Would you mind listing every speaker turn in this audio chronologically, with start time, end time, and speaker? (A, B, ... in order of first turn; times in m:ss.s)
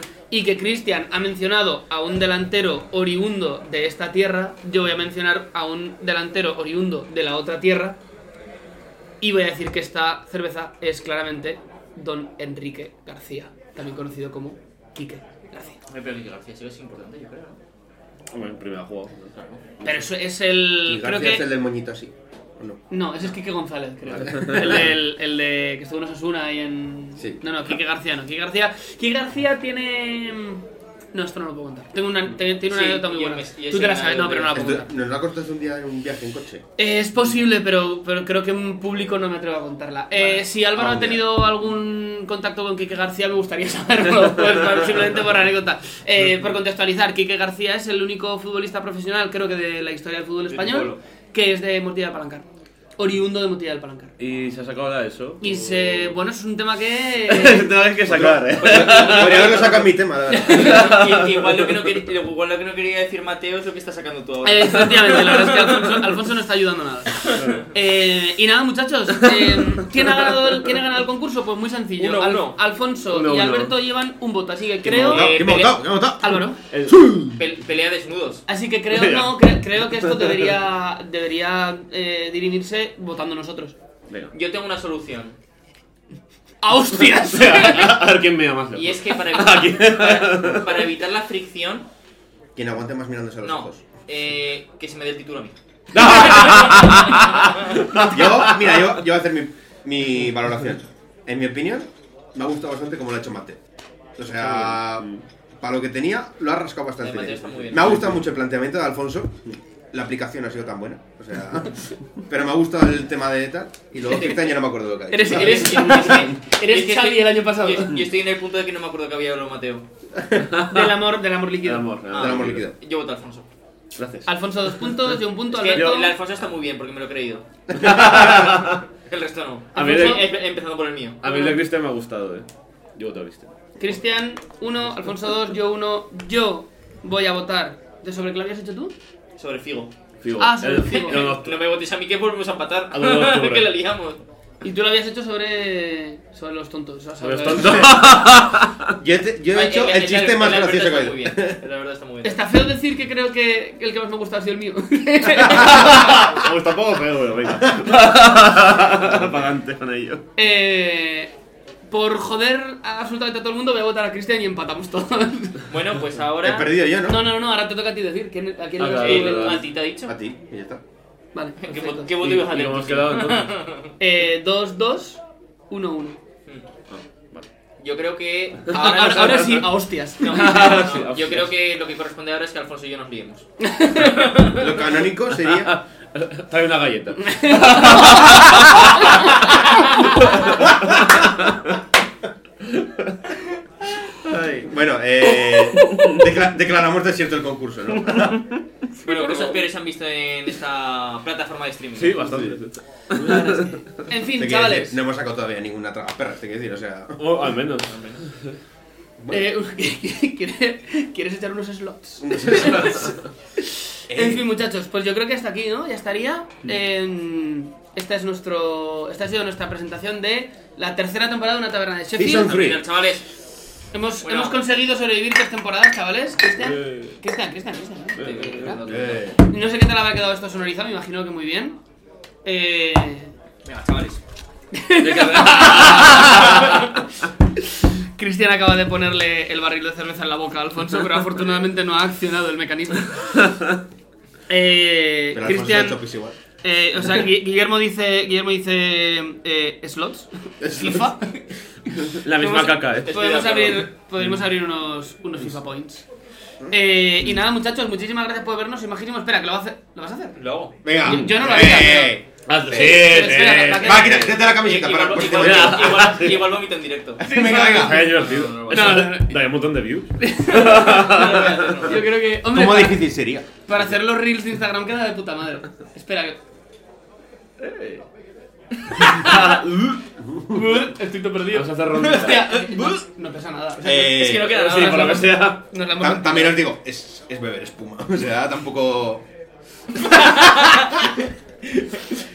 0:00.3-0:08.0 A
0:09.2-0:15.8 A
0:15.9-0:17.6 B
0:18.3-0:20.1 C
0:19.4-0:19.6 B
0:19.8-0:21.5 A
0:20.8-0:22.8 D
0:22.9-0:30.6 A
0:24.3-0:24.7 C
0:24.4-0:24.7 D
0:31.1-0:34.9 A
0:32.7-0:34.7 B
0:34.5-0:36.6 D
0:36.8-0:52.4 A
0:40.7-0:41.2 D
0:50.5-0:51.0 B
0:53.0-0:54.1 A
0:54.2-0:56.1 C
0:55.4-0:57.7 A
0:57.3-0:59.6 C
0:58.0-1:01.0 D
0:58.6-1:06.0 B
1:00.3-1:00.8 A
1:00.7-1:01.9 C
1:04.4-1:15.5 A
1:07.3-1:07.5 B
1:07.4-1:07.6 C
1:09.5-1:10.0 C
1:12.0-1:12.6 B
1:13.1-1:13.8 C
1:14.8-1:15.8 B
1:14.8-1:17.4 D
1:16.2-1:16.6 A
1:16.7-1:17.3 C
1:17.3-1:18.4 B
1:18.5-1:23.8 A
1:18.9-1:20.4 C
1:24.3-1:25.4 B
1:26.6-1:28.0 A
1:27.2-1:30.7 C
1:28.7-1:31.9 B
1:32.6-1:33.8 D
1:33.4-1:37.6 B
1:35.9-1:38.8 C
1:37.9-1:43.6 D
1:44.2-1:45.1 D
1:44.4-1:45.2 C
1:45.6-1:49.4 D
1:47.0-1:48.1 B
1:49.9-1:56.2 D
1:54.0-1:54.5 B
1:55.1-1:58.0 A
1:55.2-1:59.8 B
2:00.4-2:00.9 C
2:00.6-2:01.9 A
2:01.6-2:02.6 C
2:02.1-2:03.5 B
2:02.1-2:02.7 D
2:03.9-2:05.2 C
2:04.2-2:06.2 A
2:05.5-2:11.2 B
2:05.7-2:06.0 C
2:07.7-2:08.8 C
2:09.7-2:10.2 A
2:09.7-2:10.2 C
2:11.2-2:13.5 C
2:11.2-2:11.6 A
2:13.8-2:18.9 A
2:19.4-2:19.9 B
2:20.2-2:21.6 C
2:20.4-2:21.3 A
2:20.9-2:24.2 B
2:22.9-2:23.7 C
2:24.6-2:28.1 A
2:27.2-2:28.9 C
2:29.0-2:31.6 D
2:29.5-2:32.4 B
2:32.2-2:36.3 A
2:35.5-2:40.2 C
2:39.0-2:39.4 D
2:40.4-2:41.3 A
2:41.9-2:45.6 A
2:45.7-2:46.7 B
2:46.4-2:47.3 D
2:47.0-2:49.6 A
2:48.8-2:49.6 C
2:48.9-2:50.1 B
2:50.0-2:50.8 D
2:51.3-2:52.1 A
2:51.6-2:53.9 B
2:52.2-2:53.5 C
2:54.0-2:56.2 A
2:56.9-2:57.4 C
2:57.8-2:59.6 B
2:58.7-3:00.9 A
3:00.2-3:04.7 B
3:00.2-3:01.5 C
3:03.6-3:04.5 A
3:04.5-3:05.7 D
3:05.4-3:11.7 C
3:07.2-3:10.2 A
3:10.8-3:11.1 D
3:12.6-3:13.2 C
3:14.2-3:14.6 C
3:14.6-3:18.4 D
3:15.8-3:16.1 A
3:15.9-3:16.1 C
3:18.1-3:18.6 C
3:19.0-3:22.3 B
3:22.0-3:23.8 C
3:22.2-3:22.6 D
3:23.2-3:25.0 A
3:24.4-3:27.5 D
3:27.2-3:28.6 C
3:27.9-3:28.2 B
3:29.2-3:29.4 D
3:29.3-3:42.5 A
3:32.2-3:33.1 D
3:32.6-3:33.0 C
3:34.1-3:34.4 D
3:42.2-3:42.8 D
3:42.3-3:43.3 B
3:43.9-3:48.8 A
3:44.2-3:44.6 B
3:46.7-3:47.1 C
3:48.2-3:49.3 B
3:48.2-3:48.8 C
3:48.8-3:49.4 D
3:49.4-3:51.8 A
3:52.4-3:53.3 A
3:53.6-3:54.2 B
3:54.7-3:56.9 A
3:55.0-3:56.9 C
3:57.6-4:03.4 A
4:04.5-4:06.0 A
4:05.3-4:06.3 D
4:06.6-4:11.5 A
4:10.6-4:11.1 D
4:12.0-4:16.0 A
4:12.1-4:13.1 C
4:13.0-4:13.8 B
4:16.7-4:20.4 A
4:20.4-4:20.8 B
4:20.8-4:26.1 D
4:21.0-4:22.2 A
4:22.4-4:24.3 C
4:22.7-4:24.4 A
4:24.3-4:27.2 B
4:25.2-4:26.5 C
4:27.2-4:28.2 D
4:27.2-4:28.2 A
4:27.6-4:31.9 C
4:27.9-4:29.0 B
4:28.7-4:29.4 A
4:30.2-4:33.1 A
4:30.8-4:32.0 B
4:32.4-4:33.5 D
4:33.6-4:36.4 A
4:37.6-4:38.0 C
4:39.0-4:40.0 C
4:40.5-4:46.6 A
4:41.5-4:42.5 C
4:42.0-4:43.0 B
4:43.8-4:44.6 D
4:44.0-4:45.3 B
4:44.3-4:45.6 C
4:46.0-4:49.2 D
4:50.0-4:50.8 A